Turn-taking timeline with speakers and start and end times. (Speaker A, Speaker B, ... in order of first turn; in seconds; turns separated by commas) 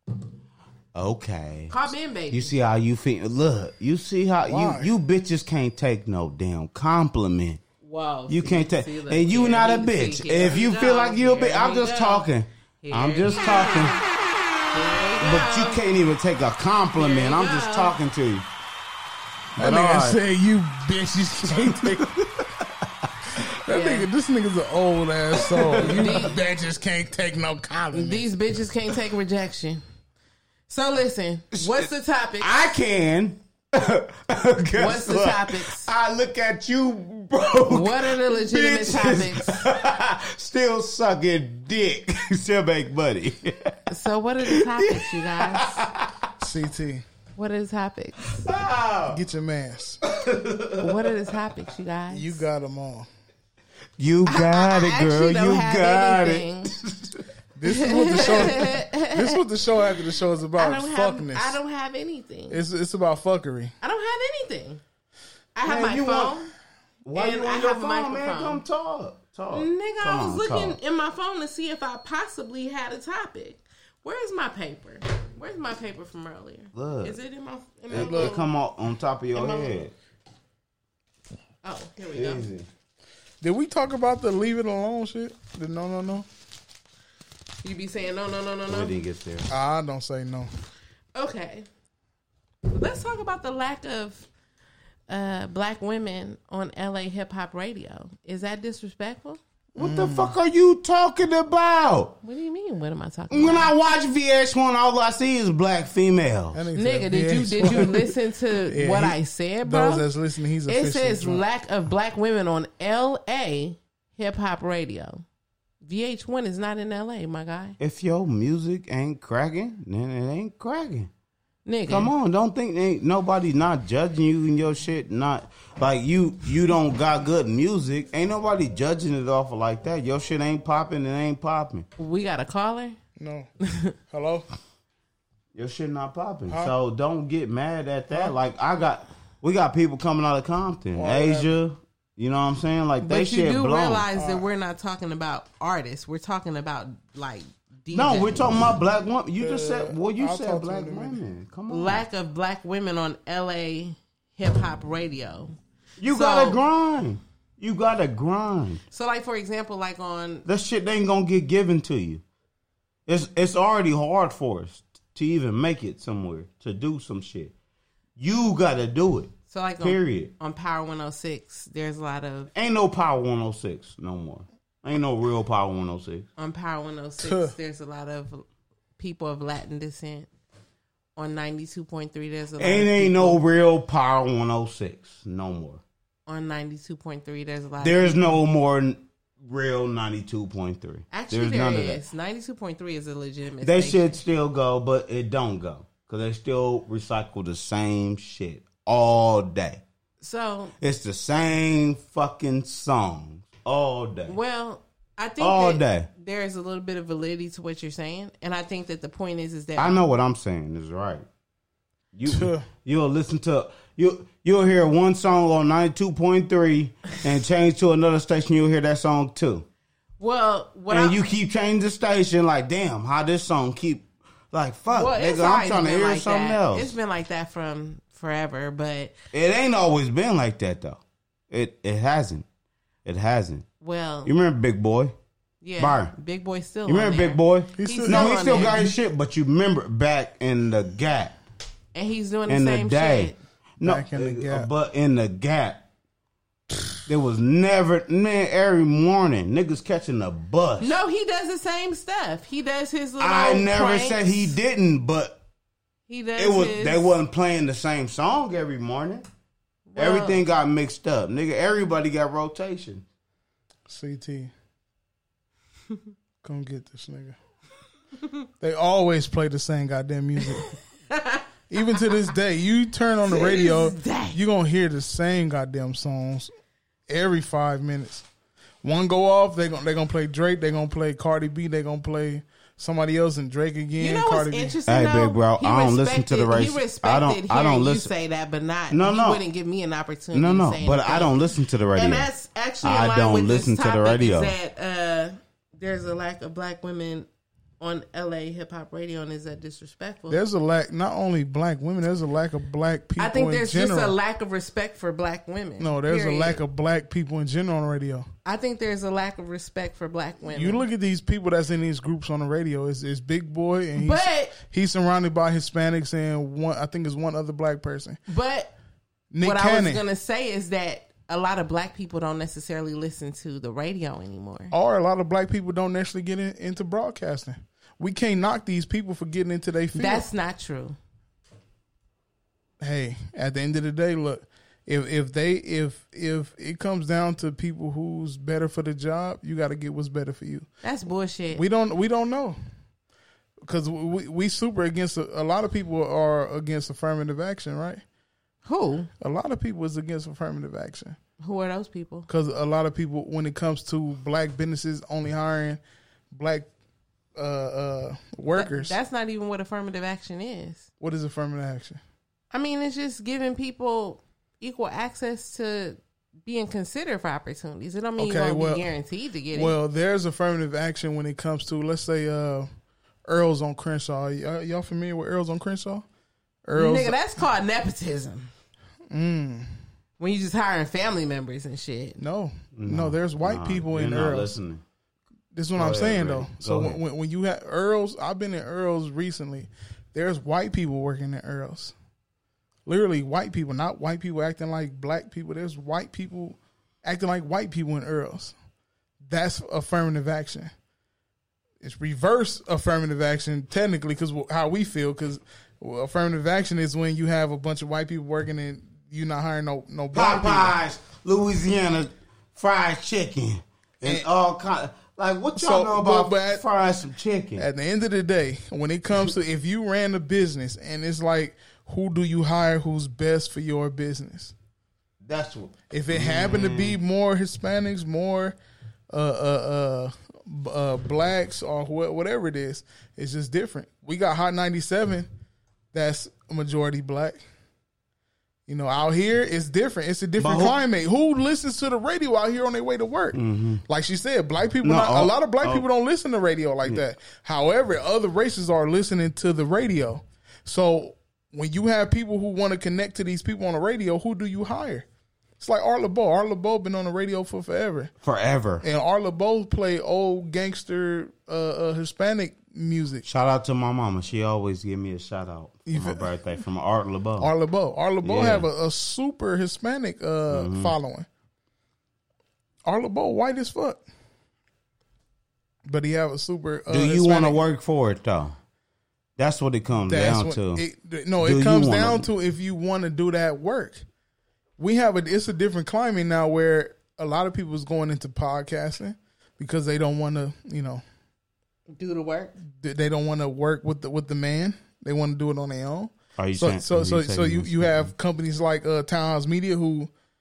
Speaker A: 0.9-7.6, Speaker B: 1.7-2.5, Speaker C: 4.5-4.9, Speaker B: 7.8-12.3, Speaker A: 8.3-14.0, Speaker B: 12.8-13.9, Speaker B: 14.7-15.8, Speaker A: 15.2-18.5, Speaker B: 17.0-17.9, Speaker A: 19.6-20.2, Speaker C: 19.6-22.2, Speaker A: 21.5-22.7, Speaker C: 23.6-28.3, Speaker B: 23.7-24.1, Speaker A: 25.5-26.2, Speaker B: 25.8-26.4, Speaker B: 27.9-29.8, Speaker B: 30.7-32.8, Speaker A: 31.5-31.9, Speaker A: 32.4-43.8, Speaker B: 34.8-35.9, Speaker B: 37.7-39.7, Speaker B: 43.9-45.9, Speaker A: 44.4-46.1, Speaker C: 46.4-47.0, Speaker B: 47.4-48.4, Speaker A: 48.4-49.2, Speaker C: 49.1-50.0, Speaker A: 50.0-51.1, Speaker B: 50.8-52.5, Speaker C: 52.1-53.1, Speaker A: 54.0-57.3, Speaker B: 54.2-56.7, Speaker C: 57.6-61.6, Speaker B: 57.7-59.4, Speaker B: 60.6-62.6, Speaker C: 62.5-63.7, Speaker B: 63.8-64.8, Speaker B: 65.5-66.5, Speaker A: 65.7-66.4, Speaker A: 67.0-70.8, Speaker B: 67.1-68.6, Speaker B: 69.5-78.5, Speaker A: 76.7-77.2, Speaker A: 77.9-79.9, Speaker C: 77.9-78.4, Speaker B: 79.3-79.8, Speaker B: 81.6-82.5, Speaker A: 82.1-82.7, Speaker C: 83.4-86.3, Speaker B: 87.6-89.0, Speaker A: 88.7-89.5, Speaker C: 89.5-90.5, Speaker B: 91.2-91.7, Speaker B: 92.7-94.3, Speaker B: 95.1-99.4, Speaker A: 99.8-102.2, Speaker C: 99.8-100.3, Speaker B: 102.2-103.7, Speaker A: 103.3-106.6, Speaker C: 106.5-111.4, Speaker B: 106.8-110.1, Speaker B: 110.7-115.2, Speaker B: 115.8-117.8, Speaker A: 117.8-121.1, Speaker B: 121.7-122.1, Speaker A: 121.9-131.9, Speaker B: 132.0-133.0, Speaker C: 133.2-133.5, Speaker B: 133.7-133.9, Speaker C: 134.1-134.5, Speaker A: 135.5-144.1, Speaker C: 136.5-136.7, Speaker C: 140.9-141.5, Speaker B: 143.0-148.7, Speaker C: 144.2-144.5, Speaker A: 147.9-152.0, Speaker C: 149.4-151.2, Speaker B: 151.7-156.6, Speaker A: 156.0-158.8, Speaker B: 158.9-160.4, Speaker A: 160.5-162.2, Speaker A: 163.1-167.5, Speaker A: 168.2-170.3, Speaker B: 169.5-172.5, Speaker A: 172.5-176.3, Speaker B: 176.4-178.4, Speaker C: 177.2-177.5, Speaker B: 179.0-180.3, Speaker B: 181.2-183.4, Speaker A: 182.6-185.8, Speaker B: 186.3-188.4, Speaker A: 187.8-192.0, Speaker B: 191.1-194.2, Speaker A: 193.6-199.8, Speaker B: 200.2-200.7, Speaker A: 200.8-204.4, Speaker B: 204.3-210.0, Speaker A: 205.4-206.1, Speaker A: 209.8-211.3, Speaker A: 212.1-219.7, Speaker C: 212.3-212.7, Speaker B: 220.2-221.2, Speaker A: 220.9-226.9, Speaker B: 224.9-229.2, Speaker A: 229.3-232.4, Speaker A: 233.1-233.7, Speaker B: 233.8-234.3, Speaker A: 234.2-235.2, Speaker B: 235.6-238.8, Speaker A: 235.8-236.1, Speaker A: 236.9-241.4, Speaker C: 237.8-238.9, Speaker B: 241.9-243.4, Speaker A: 242.5-245.9, Speaker C: 243.8-244.7, Speaker A: 247.1-251.0, Speaker B: 250.8-254.6, Speaker A: 253.2-255.4, Speaker B: 256.1-257.1, Speaker A: 256.4-259.3, Speaker B: 259.9-260.4, Speaker A: 260.0-263.1, Speaker C: 263.9-264.5, Speaker C: 266.4-267.4, Speaker C: 268.6-270.7, Speaker B: 271.1-271.4, Speaker C: 271.7-276.5, Speaker B: 273.3-274.4, Speaker C: 277.1-278.3, Speaker C: 278.8-284.8, Speaker B: 284.0-291.3, Speaker A: 284.9-288.1, Speaker A: 288.9-289.4, Speaker A: 290.3-292.3, Speaker B: 291.9-297.3, Speaker A: 292.8-294.5, Speaker B: 297.8-300.4, Speaker C: 300.3-304.2, Speaker B: 303.2-306.6, Speaker C: 305.8-308.3, Speaker B: 308.4-310.8, Speaker C: 310.5-318.2, Speaker B: 314.0-314.6, Speaker B: 318.3-318.7, Speaker C: 319.3-320.0, Speaker B: 319.4-324.7, Speaker C: 324.7-330.3, Speaker B: 329.9-331.0, Speaker C: 332.8-340.7, Speaker B: 340.8-341.6, Speaker C: 341.5-342.6, Speaker C: 343.6-348.0, Speaker B: 348.6-349.1, Speaker C: 349.2-351.2, Speaker B: 351.4-352.3, Speaker C: 352.3-355.8, Speaker C: 356.3-356.7, Speaker C: 357.4-358.9, Speaker B: 358.5-360.9, Speaker C: 361.0-362.0, Speaker B: 362.5-369.8, Speaker C: 368.2-368.9, Speaker C: 369.5-372.7, Speaker C: 373.3-376.1, Speaker C: 376.6-377.2, Speaker B: 376.8-378.5, Speaker C: 379.1-379.7, Speaker B: 380.2-382.2, Speaker C: 382.2-384.6, Speaker A: 382.8-384.8, Speaker C: 385.5-391.9, Speaker A: 385.8-387.0, Speaker C: 392.9-398.6, Speaker C: 399.2-400.7, Speaker C: 401.8-410.8, Speaker A: 410.1-417.7, Speaker C: 415.6-416.6, Speaker C: 417.6-424.5, Speaker A: 425.2-427.0, Speaker C: 425.9-428.6, Speaker C: 429.1-435.3, Speaker C: 435.9-437.4, Speaker C: 438.7-455.1, Speaker A: 440.4-440.8, Speaker A: 443.3-443.8, Speaker A: 444.8-445.9, Speaker C: 455.6-458.1, Speaker A: 458.2-458.9, Speaker C: 458.8-463.2, Speaker A: 463.2-467.5, Speaker C: 465.9-466.2, Speaker C: 467.4-471.3, Speaker A: 468.2-468.7, Speaker A: 470.5-470.9, Speaker C: 472.9-474.0, Speaker C: 475.9-477.6, Speaker A: 476.9-478.6, Speaker A: 479.4-480.8, Speaker C: 480.0-484.1, Speaker A: 481.4-482.3, Speaker C: 484.8-491.0, Speaker B: 491.9-492.6, Speaker C: 492.7-500.1, Speaker A: 496.4-498.1